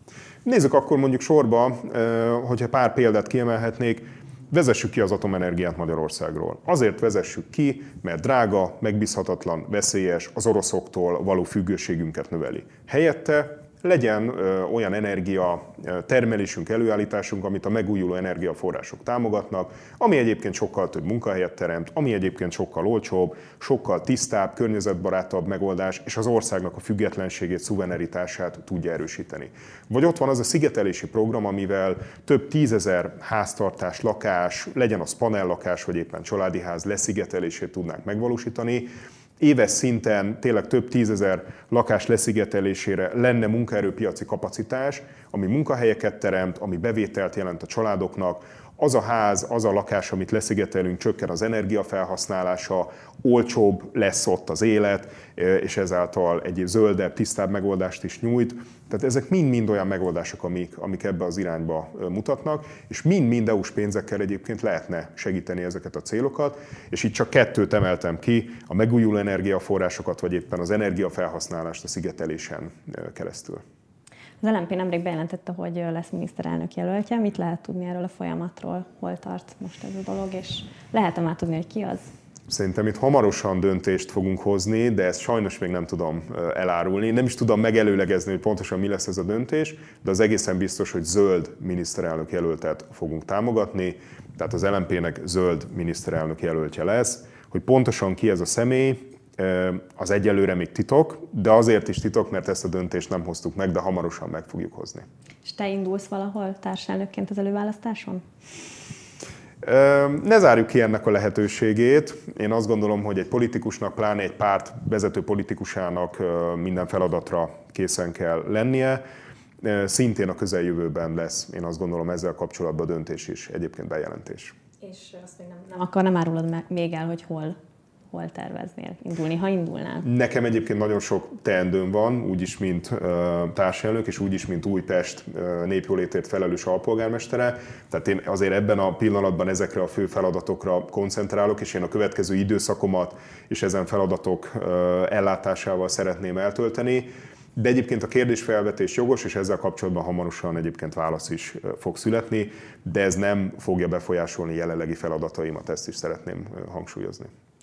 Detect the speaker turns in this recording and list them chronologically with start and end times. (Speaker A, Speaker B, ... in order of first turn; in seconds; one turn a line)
Speaker A: 0.5-73.6
Speaker B: 74.4-82.1
Speaker A: 82.5-105.0
Speaker B: 105.5-108.2
Speaker A: 109.6-119.0
Speaker A: 119.6-124.5
Speaker B: 124.8-127.5
Speaker B: 128.1-130.1
Speaker A: 130.0-157.3